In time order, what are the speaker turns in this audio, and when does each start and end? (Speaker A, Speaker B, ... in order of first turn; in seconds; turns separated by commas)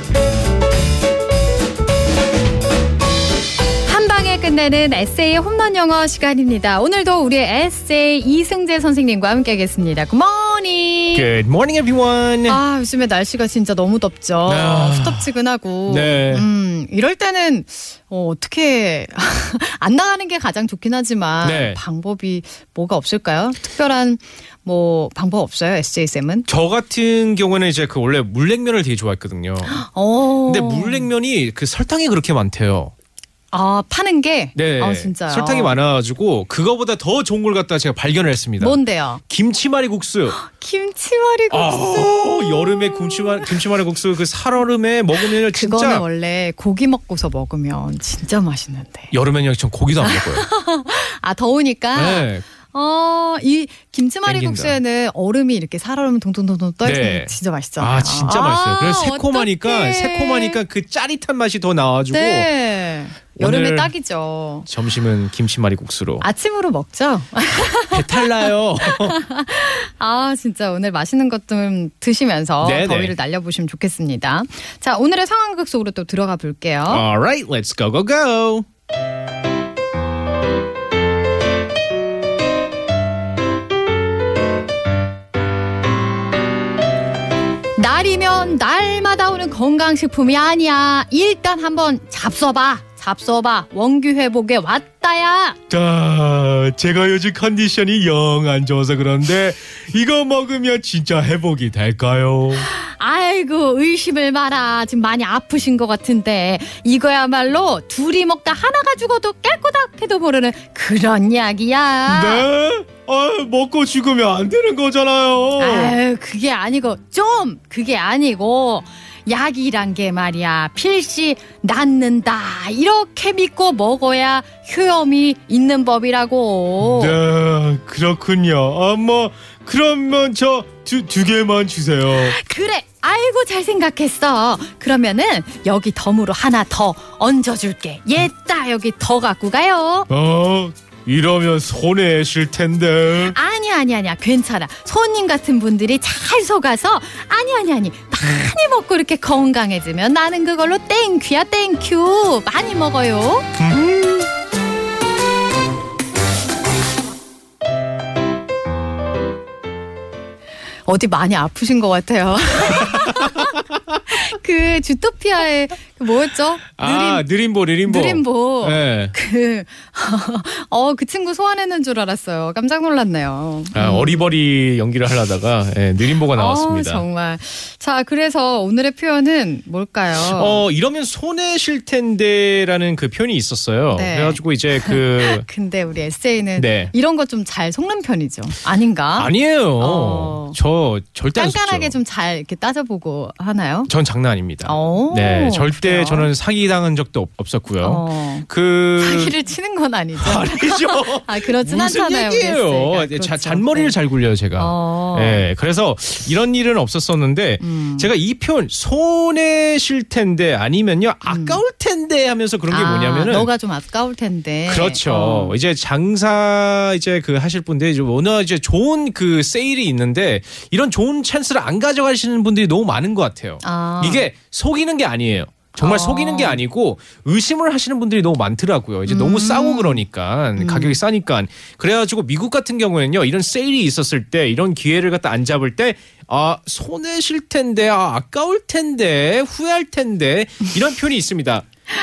Speaker A: 3.9-11.3, Speaker B: 11.1-12.6, Speaker A: 12.5-26.5, Speaker B: 14.5-15.3, Speaker B: 15.9-16.5, Speaker B: 21.4-21.8, Speaker B: 26.5-29.8, Speaker A: 29.6-31.1, Speaker B: 30.4-32.9, Speaker A: 33.5-35.8, Speaker B: 34.5-38.8, Speaker A: 38.6-39.2, Speaker B: 39.3-40.4, Speaker A: 40.3-43.6, Speaker B: 41.5-46.0, Speaker A: 45.1-49.1, Speaker B: 49.1-50.5, Speaker A: 50.0-60.6, Speaker B: 51.9-52.5, Speaker B: 54.2-54.8, Speaker B: 56.8-62.5, Speaker A: 62.1-64.7, Speaker B: 63.4-63.9, Speaker B: 64.7-66.3, Speaker A: 66.2-77.0, Speaker B: 67.9-69.2, Speaker B: 72.6-73.1, Speaker B: 76.9-78.7, Speaker A: 87.8-95.6, Speaker B: 95.7-102.7, Speaker A: 102.6-112.5, Speaker B: 112.1-116.0, Speaker A: 115.6-127.2, Speaker B: 126.8-132.4, Speaker A: 132.1-140.1, Speaker B: 140.1-143.4, Speaker A: 143.2-153.6, Speaker B: 153.6-154.1, Speaker A: 160.8-167.2, Speaker B: 162.7-163.5, Speaker B: 166.8-169.1, Speaker A: 167.8-174.3, Speaker B: 173.7-177.1, Speaker A: 176.3-180.6, Speaker B: 180.2-185.4, Speaker A: 183.9-190.6, Speaker B: 186.6-186.9, Speaker B: 189.2-192.0, Speaker A: 191.3-193.9, Speaker B: 193.9-199.3, Speaker A: 194.6-196.3, Speaker A: 197.8-204.0, Speaker B: 200.2-213.5, Speaker A: 204.6-205.5, Speaker A: 207.6-208.1, Speaker A: 211.3-211.6, Speaker A: 212.7-215.6, Speaker B: 214.7-241.7, Speaker A: 223.6-224.3, Speaker A: 225.8-226.6, Speaker A: 229.1-230.0, Speaker A: 230.6-231.0